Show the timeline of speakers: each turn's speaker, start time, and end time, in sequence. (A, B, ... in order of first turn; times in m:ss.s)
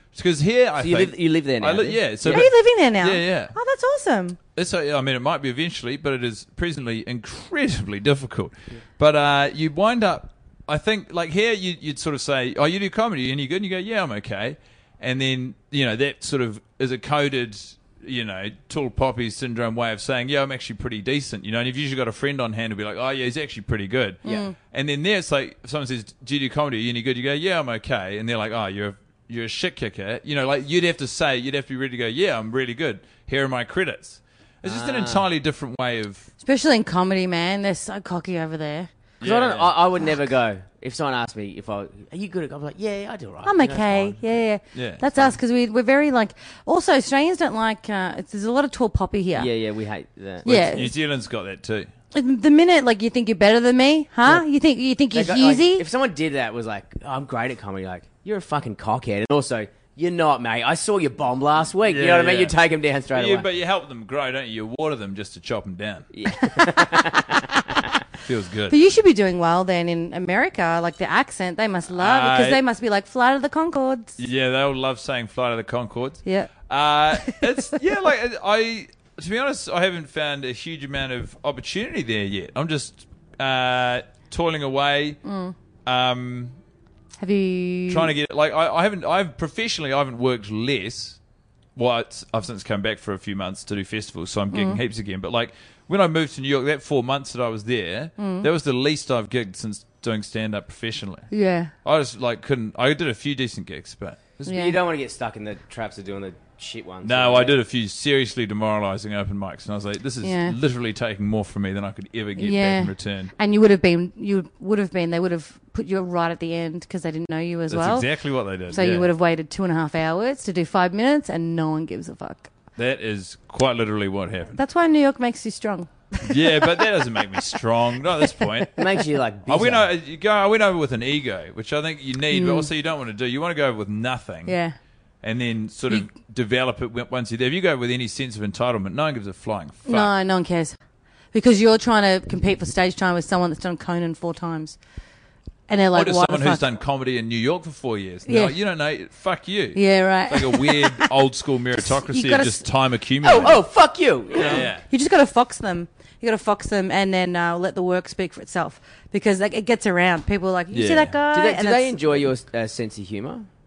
0:00.1-0:03.5 A
0:00.8-0:02.5 B
0:02.2-0:04.4 C
0:04.6-0:36.3 A
0:24.2-0:24.5 C
0:34.6-0:35.2 B
0:36.4-0:38.9 C
0:39.2-0:39.7 A
0:39.2-0:44.2 B
0:43.4-0:49.5 C
0:44.7-0:45.0 A
0:49.4-0:50.8 B
0:50.4-0:50.9 C
0:50.4-0:51.9 A
0:52.1-0:55.8 C
0:55.1-1:03.5 B
1:01.8-1:02.6 A
1:03.1-1:06.1 A
1:06.1-1:07.9 B
1:06.3-1:06.9 C
1:08.2-1:08.8 A
1:08.7-1:14.2 C
1:12.0-1:12.6 A
1:14.2-1:25.2 A
1:16.2-1:16.5 C
1:17.1-1:17.8 C
1:25.2-1:25.5 C
1:25.9-1:26.6 A
1:27.2-1:28.1 C
1:27.9-1:31.2 A
1:31.8-1:41.3 A
1:34.5-1:34.8 C
1:38.2-1:38.5 C
1:41.3-1:41.7 C
1:41.8-1:44.5 A
1:44.4-1:47.6 B
1:44.4-1:44.8 C
1:47.0-1:53.3 A
1:50.2-1:50.6 C
1:52.4-1:58.1 C
1:57.7-1:59.1 A
1:58.7-2:02.5 C
2:02.8-2:04.6 A
2:04.5-2:06.8 C
2:06.2-2:08.8 A
2:08.2-2:08.7 C
2:08.8-2:09.9 B
2:09.5-2:14.6 A
2:12.3-2:12.7 C
2:14.4-2:14.8 C
2:15.2-2:20.1 A
2:19.9-2:20.8 C
2:21.3-2:24.8 C
2:25.7-2:26.6 C
2:25.9-2:33.6 A
2:28.2-2:28.5 C
2:29.7-2:31.1 C
2:31.8-2:32.6 C
2:33.2-2:34.7 B
2:34.3-2:34.8 A
2:34.6-2:42.2 C
2:40.7-2:41.1 A
2:41.3-2:43.4 B